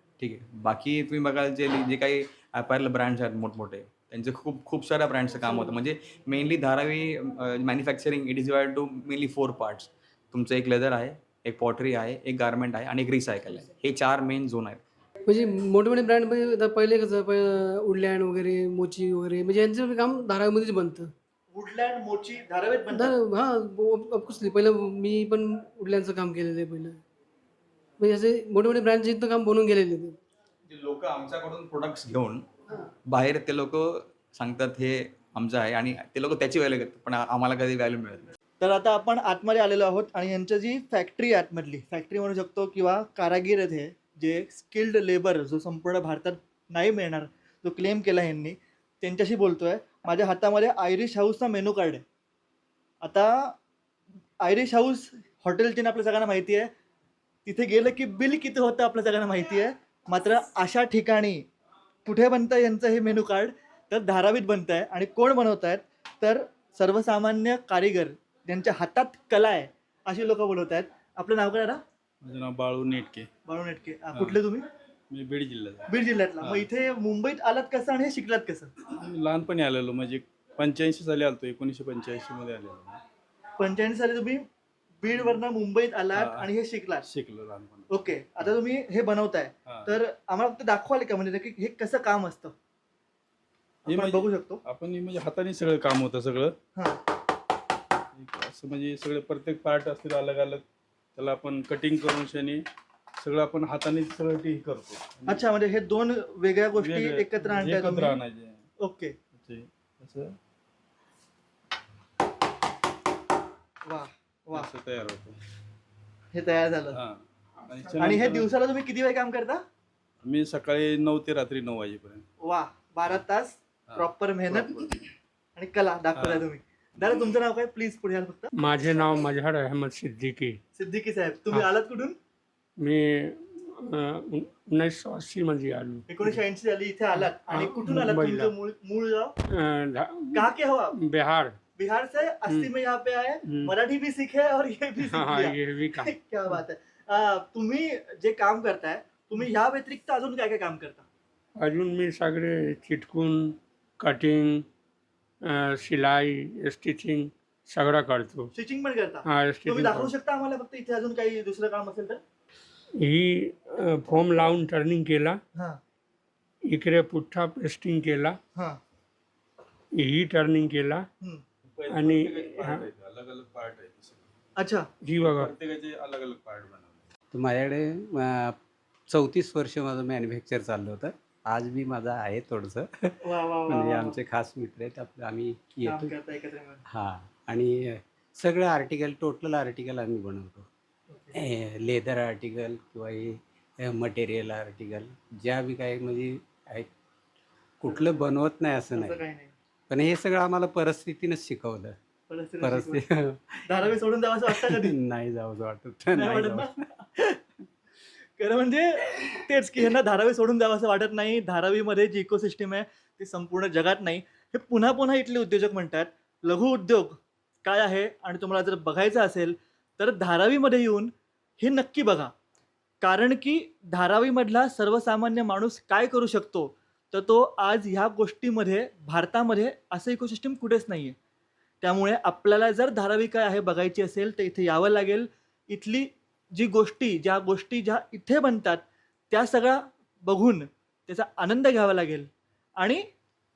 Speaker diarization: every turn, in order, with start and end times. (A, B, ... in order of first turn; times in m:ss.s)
0:00.2-0:14.8 A
0:15.3-0:21.1 B
0:21.5-0:23.1 C
0:22.9-0:27.0 B
0:28.0-0:30.2 B
0:30.7-0:32.5 A
0:33.1-0:38.3 A
0:38.6-0:52.0 C
0:53.0-0:53.6 C
0:54.4-0:56.7 C
0:57.4-1:01.5 C
1:02.0-1:11.8 C
1:12.2-1:13.3 D
1:13.5-1:14.7 C
1:15.1-1:16.7 D
1:15.9-1:18.7 C
1:18.9-1:23.0 D
1:23.6-1:24.4 C
1:25.0-1:27.1 C
1:26.1-1:26.5 D
1:27.0-1:27.9 D
1:27.9-1:32.5 C
1:29.7-1:29.9 D
1:33.9-1:36.6 D
1:33.9-1:34.6 C
1:36.8-1:37.0 C
1:38.1-1:40.6 D
1:41.2-1:42.6 D
1:43.2-1:45.4 D
1:45.3-1:48.2 C
1:46.8-1:48.6 D
1:48.8-1:49.2 C
1:49.4-1:50.4 D
1:53.9-1:54.7 C
1:54.5-1:55.4 D
1:56.3-1:57.0 C
1:56.9-1:58.5 D
1:57.9-1:59.6 C
2:00.2-2:02.2 D
2:02.4-2:04.8 C
2:03.9-2:05.0 D
2:05.6-2:08.5 C
2:06.2-2:06.4 D
2:08.6-2:10.6 E
2:10.8-2:12.2 C
2:12.8-2:16.4 E
2:16.1-2:19.3 C
2:17.4-2:18.5 E
2:19.5-2:21.6 E
2:20.4-2:21.0 C
2:21.8-2:31.1 C
2:23.5-2:23.7 E
2:25.0-2:26.1 E
2:31.6-2:34.7 E
2:35.4-2:38.5 E
2:38.5-2:42.2 C
2:39.3-2:40.1 E
2:43.0-2:45.4 E
2:45.6-2:45.8 C
2:46.7-2:48.4 E
2:48.6-2:48.8 C
2:50.0-2:51.0 E
2:51.7-2:54.3 D
2:51.9-2:52.9 E
2:54.6-2:54.9 C
2:55.0-2:55.5 E
2:55.2-2:57.0 D
2:57.3-3:06.1 F
3:03.2-3:04.2 C
3:05.8-3:06.8 C
3:06.9-3:10.7 F
3:11.1-3:11.4 C
3:11.3-3:16.9 F
3:17.8-3:19.2 F
3:18.9-3:19.5 C
3:19.9-3:22.0 F
3:22.3-3:23.0 C
3:22.6-3:23.8 F
3:23.7-3:25.0 C
3:24.5-3:26.7 F
3:26.1-3:27.4 C
3:28.4-3:42.3 C
3:43.0-3:51.2 C
3:51.8-4:03.0 C